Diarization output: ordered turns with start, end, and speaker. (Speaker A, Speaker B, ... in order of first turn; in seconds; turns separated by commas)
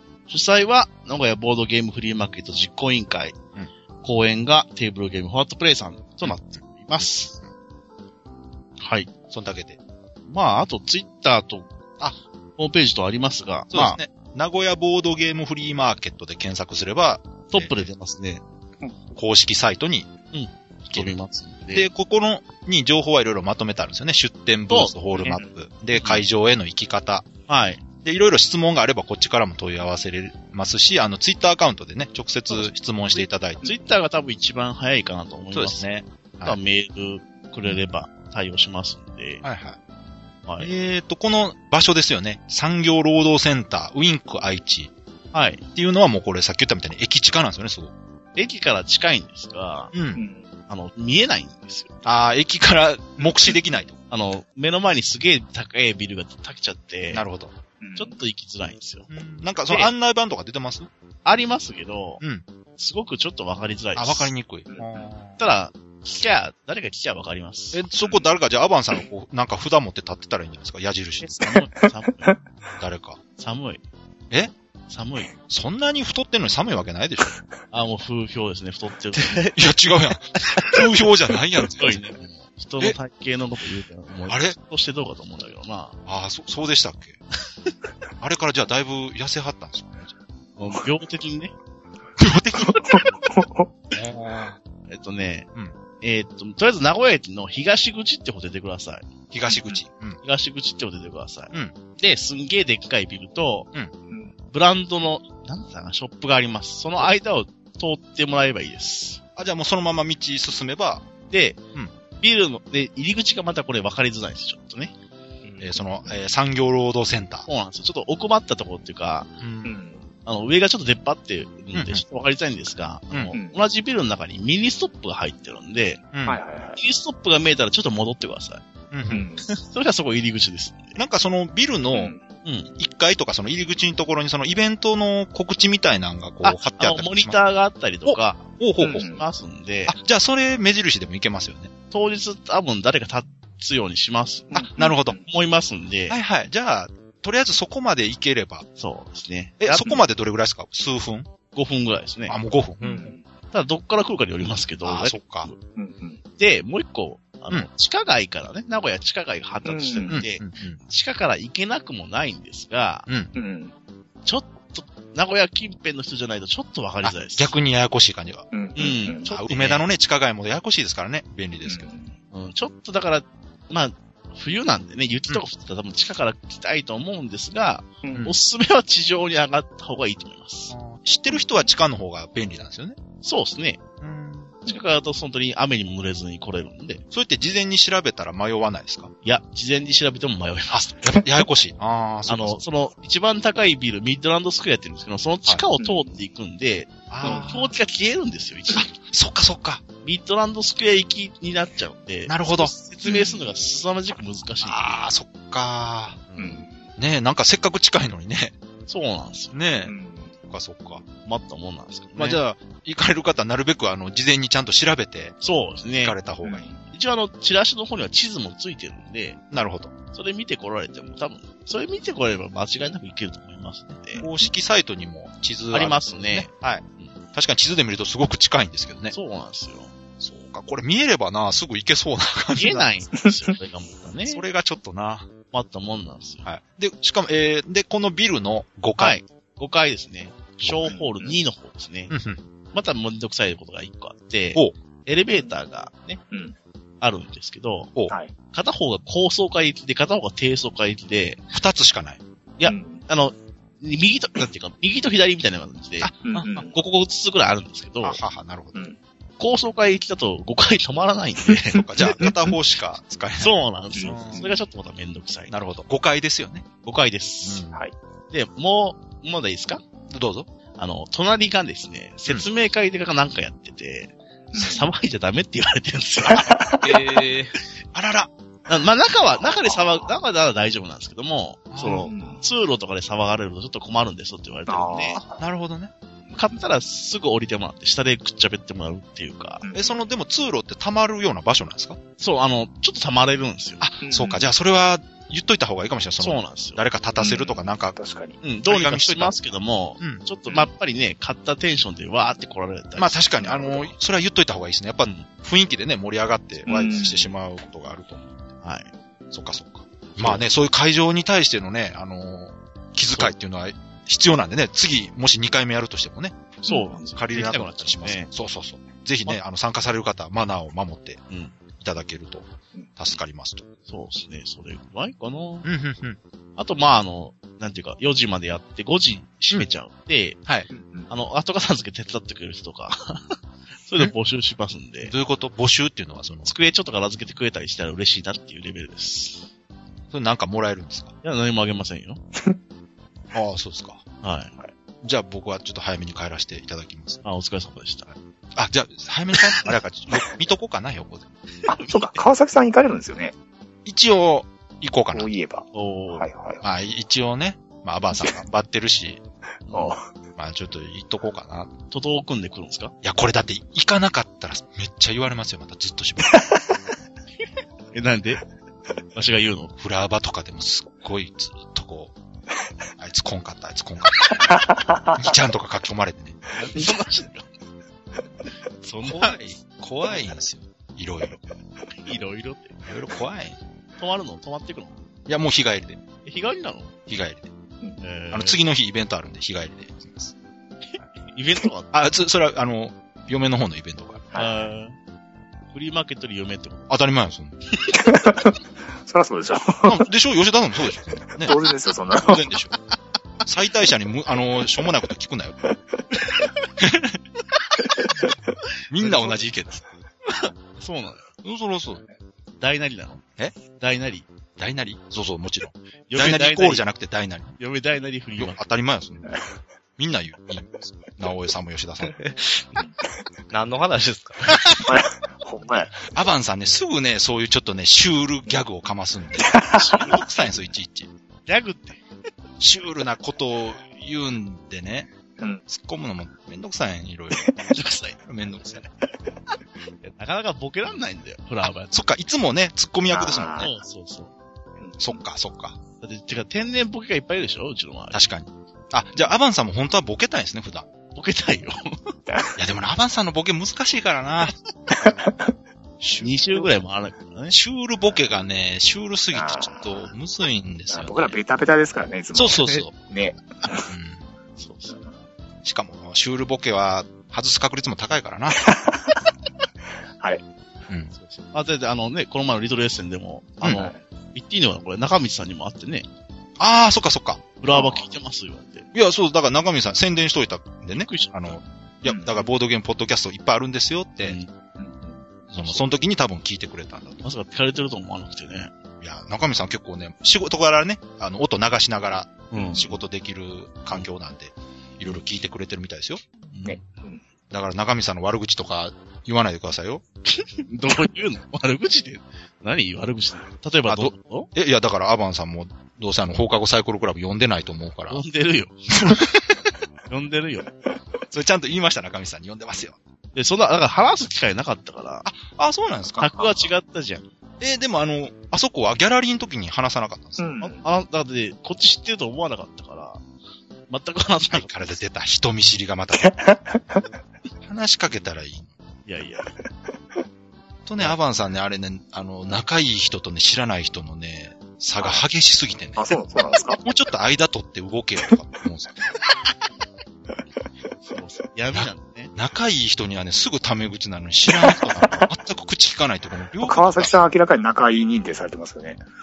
Speaker A: 0.3-3.4, Speaker A: 4.0-7.4, Speaker A: 8.8-9.1, Speaker B: 9.3-9.8, Speaker A: 10.3-11.7, Speaker A: 12.6-14.0, Speaker B: 13.7-17.9, Speaker A: 17.5-18.4, Speaker B: 19.1-20.1, Speaker A: 20.3-21.9, Speaker B: 21.7-27.3, Speaker A: 24.7-25.4, Speaker C: 25.2-25.5, Speaker A: 25.9-26.2, Speaker A: 27.5-27.8, Speaker B: 28.0-33.6, Speaker A: 32.5-35.9, Speaker B: 35.5-36.6, Speaker A: 36.4-39.4, Speaker B: 39.4-39.8, Speaker B: 40.6-44.9, Speaker A: 45.3-45.6, Speaker B: 45.8-47.9, Speaker A: 48.4-49.9, Speaker B: 49.9-50.2, Speaker C: 50.1-50.5, Speaker A: 50.7-51.9, Speaker B: 52.0-54.0, Speaker A: 54.1-57.2, Speaker B: 57.1-57.5, Speaker C: 57.8-58.2, Speaker A: 58.0-59.1, Speaker B: 59.1-60.9, Speaker A: 61.2-62.2, Speaker A: 62.8-64.3, Speaker B: 64.0-65.4, Speaker C: 64.7-65.1, Speaker A: 65.4-67.8, Speaker B: 67.7-71.5, Speaker C: 68.0-68.3, Speaker A: 71.2-72.4, Speaker B: 72.8-73.2, Speaker A: 73.4-73.8, Speaker A: 74.9-75.3, Speaker B: 75.5-77.4, Speaker A: 77.7-79.6, Speaker B: 79.2-82.0, Speaker A: 80.4-80.8, Speaker A: 81.8-86.0, Speaker B: 84.3-84.6, Speaker B: 86.1-87.2, Speaker B: 88.2-90.1, Speaker A: 90.6-91.5, Speaker B: 92.2-93.1, Speaker C: 92.6-93.7, Speaker B: 93.9-94.6, Speaker A: 94.9-95.5, Speaker A: 96.0-99.1, Speaker B: 99.3-100.2, Speaker C: 99.5-99.8, Speaker A: 100.2-103.7, Speaker A: 104.5-109.2, Speaker B: 109.4-111.0, Speaker A: 111.3-111.6, Speaker A: 112.2-114.9, Speaker B: 115.6-117.5, Speaker A: 117.5-119.3, Speaker B: 119.4-119.8, Speaker C: 119.6-120.0, Speaker A: 120.3-126.0, Speaker B: 121.7-122.0, Speaker C: 123.3-123.6, Speaker B: 126.1-126.4, Speaker C: 126.3-126.8, Speaker A: 126.8-128.6, Speaker B: 128.9-129.3, Speaker C: 129.1-129.5, Speaker A: 129.4-131.0, Speaker B: 131.0-132.2, Speaker C: 131.9-132.2, Speaker A: 132.4-132.7, Speaker B: 132.8-137.4, Speaker A: 136.4-138.5, Speaker B: 138.1-139.1, Speaker C: 138.8-139.2, Speaker A: 139.0-140.0, Speaker B: 139.9-141.7, Speaker A: 141.9-144.5, Speaker C: 144.5-145.2, Speaker B: 144.5-145.2, Speaker A: 145.2-146.2, Speaker B: 146.1-148.7, Speaker A: 148.8-150.0, Speaker B: 149.6-151.3, Speaker A: 151.5-152.4, Speaker B: 152.3-153.0, Speaker C: 152.8-153.2, Speaker A: 153.5-155.6, Speaker B: 154.8-155.5, Speaker C: 155.8-156.2, Speaker A: 156.4-163.1, Speaker C: 159.6-160.2, Speaker B: 160.1-160.8, Speaker C: 163.3-163.7, Speaker A: 164.2-167.6, Speaker B: 167.0-168.5, Speaker C: 168.5-169.3, Speaker A: 168.8-169.8, Speaker B: 169.2-171.9, Speaker C: 171.7-172.2, Speaker A: 172.3-180.8, Speaker C: 178.0-178.3, Speaker B: 178.1-178.4, Speaker B: 180.7-183.0, Speaker C: 181.3-181.7, Speaker A: 183.2-183.8, Speaker B: 184.0-184.6, Speaker A: 184.7-187.0, Speaker B: 187.1-189.1, Speaker A: 189.2-190.9, Speaker B: 190.7-192.6, Speaker A: 192.3-198.9, Speaker C: 195.8-196.2, Speaker B: 197.1-197.7, Speaker C: 197.2-197.6, Speaker B: 198.8-199.8, Speaker A: 200.0-205.0, Speaker B: 202.3-202.7, Speaker C: 203.0-203.5, Speaker B: 204.6-206.2, Speaker A: 206.3-206.6, Speaker C: 206.4-206.8, Speaker B: 207.0-208.5, Speaker A: 208.9-209.6, Speaker B: 209.5-209.9, Speaker C: 209.8-210.3, Speaker B: 210.5-211.0, Speaker A: 211.2-212.4, Speaker B: 212.2-215.4, Speaker A: 215.4-216.2, Speaker B: 216.0-216.7, Speaker C: 216.4-216.8, Speaker A: 216.9-219.4, Speaker B: 219.5-219.9, Speaker A: 220.1-224.3, Speaker B: 224.2-229.1, Speaker A: 225.7-227.1, Speaker A: 229.1-229.9, Speaker B: 230.2-232.9, Speaker A: 232.6-234.4, Speaker B: 234.3-235.3, Speaker A: 235.5-236.5, Speaker B: 236.4-239.2, Speaker A: 239.0-242.2, Speaker B: 240.6-240.9, Speaker C: 240.9-241.4, Speaker B: 242.1-242.4, Speaker A: 242.7-246.2, Speaker A: 247.0-247.9, Speaker A: 248.5-251.4, Speaker B: 251.5-252.2, Speaker A: 252.6-256.1, Speaker C: 252.6-253.0, Speaker B: 256.0-256.7, Speaker C: 256.2-256.8, Speaker A: 256.7-258.2, Speaker B: 258.0-258.8, Speaker A: 259.4-262.3, Speaker B: 261.7-264.4, Speaker A: 263.4-265.5, Speaker C: 263.9-264.6, Speaker B: 265.5-266.6, Speaker A: 266.8-267.6, Speaker B: 267.4-267.8, Speaker A: 268.3-269.8, Speaker B: 270.1-270.5, Speaker A: 270.8-276.6, Speaker C: 274.5-274.9, Speaker C: 276.3-277.0, Speaker D: 276.8-277.5, Speaker B: 277.9-278.3, Speaker A: 278.7-285.2, Speaker C: 279.4-280.1, Speaker B: 281.7-282.1, Speaker C: 281.8-282.4, Speaker C: 284.7-285.4, Speaker B: 285.4-285.9, Speaker A: 286.3-289.6, Speaker C: 289.6-290.0, Speaker B: 289.7-292.0, Speaker A: 292.2-293.8, Speaker B: 293.8-298.0, Speaker C: 294.0-294.5, Speaker A: 296.2-296.8, Speaker C: 297.2-298.4, Speaker A: 298.4-303.9, Speaker B: 298.6-299.4, Speaker B: 303.0-308.3, Speaker C: 306.6-307.3, Speaker A: 308.6-308.9, Speaker B: 309.3-321.2, Speaker A: 310.2-310.5, Speaker C: 316.7-317.1, Speaker A: 316.7-318.3, Speaker A: 321.3-321.6, Speaker B: 321.8-323.6, Speaker A: 323.9-325.7, Speaker B: 325.6-326.2, Speaker A: 326.6-330.4, Speaker C: 330.7-331.1, Speaker A: 331.1-335.1, Speaker B: 335.0-336.5, Speaker A: 336.5-339.5, Speaker B: 340.1-341.1, Speaker A: 341.2-342.2, Speaker B: 343.3-344.0, Speaker A: 344.2-344.5, Speaker B: 345.0-347.2, Speaker A: 347.2-348.1, Speaker B: 348.6-351.3, Speaker A: 351.6-352.2, Speaker C: 351.7-353.3, Speaker B: 353.9-355.3, Speaker C: 355.1-356.6, Speaker A: 355.7-356.3, Speaker B: 356.6-359.2, Speaker A: 359.7-360.0, Speaker C: 359.7-360.1, Speaker B: 360.4-361.7, Speaker A: 361.9-362.9, Speaker B: 363.0-366.4, Speaker A: 367.9-368.4, Speaker A: 369.1-369.7, Speaker B: 369.8-372.1, Speaker B: 373.0-374.6, Speaker C: 374.5-375.3, Speaker B: 375.1-376.4, Speaker A: 376.6-377.5, Speaker A: 378.8-379.4, Speaker B: 379.1-381.4, Speaker A: 381.9-382.8, Speaker B: 382.9-383.6, Speaker A: 384.0-385.0, Speaker B: 385.3-386.0, Speaker A: 386.2-386.9, Speaker B: 387.1-387.5, Speaker A: 388.0-388.6, Speaker B: 388.3-390.3, Speaker A: 390.9-391.9, Speaker B: 391.9-394.2, Speaker A: 394.3-394.9, Speaker A: 395.7-396.9, Speaker B: 396.9-397.6, Speaker C: 397.9-400.1, Speaker B: 399.8-401.6, Speaker C: 401.4-402.4, Speaker B: 402.1-402.8, Speaker B: 403.4-405.6, Speaker B: 406.8-407.2, Speaker B: 408.9-409.9, Speaker A: 409.0-409.5, Speaker A: 410.2-411.2, Speaker B: 411.4-412.0, Speaker A: 412.6-414.3, Speaker B: 414.6-417.6, Speaker A: 416.1-416.9, Speaker A: 417.6-418.6, Speaker B: 418.4-419.4, Speaker B: 420.0-422.2, Speaker D: 422.0-422.6, Speaker D: 423.5-424.6, Speaker C: 424.9-426.0, Speaker B: 426.1-431.1, Speaker C: 429.4-430.1, Speaker A: 429.8-430.2, Speaker A: 431.5-432.0, Speaker B: 432.6-435.1, Speaker B: 435.7-438.9, Speaker A: 437.7-438.8, Speaker A: 440.0-441.9, Speaker B: 441.9-443.7, Speaker C: 443.1-443.7, Speaker A: 443.6-444.3, Speaker C: 444.8-445.1, Speaker B: 445.0-445.8, Speaker A: 446.0-448.2, Speaker B: 448.1-450.9, Speaker A: 451.1-452.1, Speaker C: 452.3-452.6, Speaker B: 452.6-455.3, Speaker C: 455.0-455.5, Speaker B: 456.0-456.7, Speaker A: 456.2-457.6, Speaker B: 457.5-461.4, Speaker C: 459.3-460.1, Speaker C: 460.9-463.9, Speaker B: 462.4-463.0, Speaker B: 463.9-464.2, Speaker A: 464.6-465.0, Speaker B: 465.6-468.6, Speaker C: 468.6-469.2, Speaker B: 470.9-471.1, Speaker A: 471.1-476.1, Speaker C: 473.7-474.0, Speaker B: 476.6-477.4, Speaker A: 477.6-478.9, Speaker C: 477.7-478.1, Speaker B: 478.9-484.4, Speaker A: 480.9-481.6, Speaker C: 482.1-482.4, Speaker A: 484.2-484.5, Speaker C: 484.8-485.3, Speaker B: 485.5-487.2, Speaker A: 487.2-488.7, Speaker B: 489.0-496.2, Speaker A: 492.5-492.9, Speaker C: 492.6-492.8, Speaker A: 496.5-496.8, Speaker C: 496.6-497.2, Speaker B: 497.5-500.0, Speaker A: 500.3-504.5, Speaker B: 503.9-508.2, Speaker A: 508.1-509.4, Speaker A: 510.1-510.7, Speaker B: 511.3-513.0, Speaker A: 513.4-515.3, Speaker B: 515.2-516.4, Speaker C: 516.2-516.5, Speaker A: 516.2-517.3, Speaker B: 517.6-520.5, Speaker C: 520.4-520.8, Speaker A: 520.6-523.2, Speaker A: 523.9-524.9, Speaker B: 524.5-526.3, Speaker C: 526.1-527.0, Speaker B: 527.6-528.7, Speaker A: 529.1-529.5, Speaker B: 530.9-536.1, Speaker C: 536.0-536.8, Speaker B: 536.8-538.9, Speaker A: 541.0-542.3, Speaker B: 541.7-547.1, Speaker C: 544.6-545.3, Speaker C: 546.6-549.0